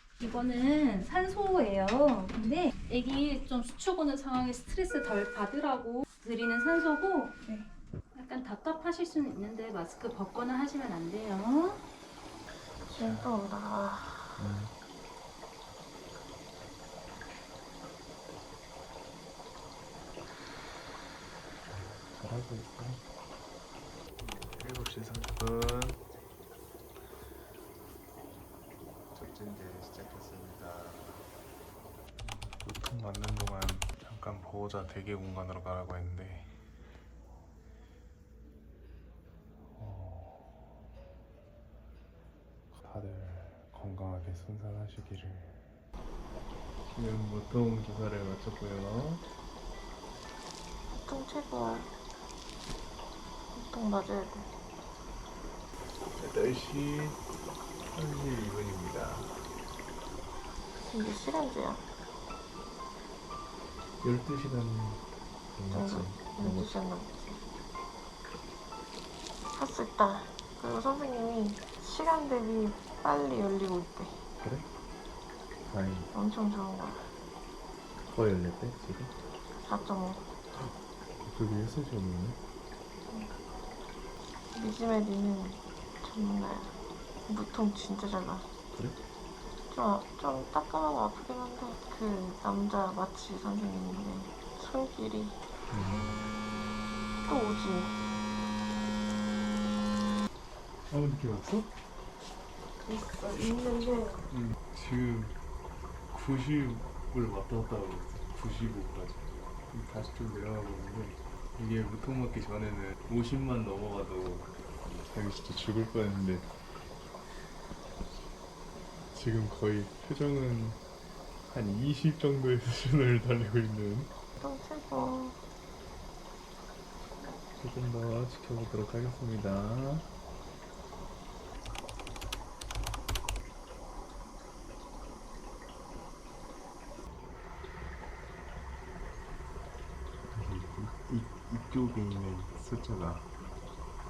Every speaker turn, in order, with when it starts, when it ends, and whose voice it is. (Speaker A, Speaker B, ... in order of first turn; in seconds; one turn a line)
Speaker A: 0.2-7.3
Speaker A: 8.1-11.8
Speaker B: 12.9-14.4
Speaker C: 12.9-13.3
Speaker C: 14.4-14.7
Speaker C: 22.0-23.0
Speaker C: 24.4-26.0
Speaker C: 29.1-31.3
Speaker C: 32.2-36.5
Speaker C: 39.8-40.6
Speaker C: 42.7-45.6
Speaker C: 46.9-49.2
Speaker B: 50.9-51.9
Speaker B: 53.5-54.5
Speaker C: 56.2-57.2
Speaker C: 57.9-59.4
Speaker B: 60.8-61.8
Speaker C: 64.0-65.0
Speaker C: 65.5-66.8
Speaker B: 65.7-67.4
Speaker B: 69.5-74.2
Speaker C: 74.4-74.7
Speaker C: 75.7-76.1
Speaker B: 76.1-77.1
Speaker C: 78.0-79.1
Speaker B: 79.6-80.2
Speaker C: 81.2-82.4
Speaker B: 84.5-86.7
Speaker B: 87.3-88.5
Speaker B: 89.7-95.4
Speaker C: 95.7-96.2
Speaker B: 97.2-98.0
Speaker C: 100.9-101.7
Speaker B: 102.8-104.3
Speaker C: 104.3-105.3
Speaker C: 106.1-116.5
Speaker C: 119.1-120.8
Speaker C: 121.5-124.1
Speaker B: 124.4-125.4
Speaker C: 127.6-130.1
Speaker C: 140.3-143.3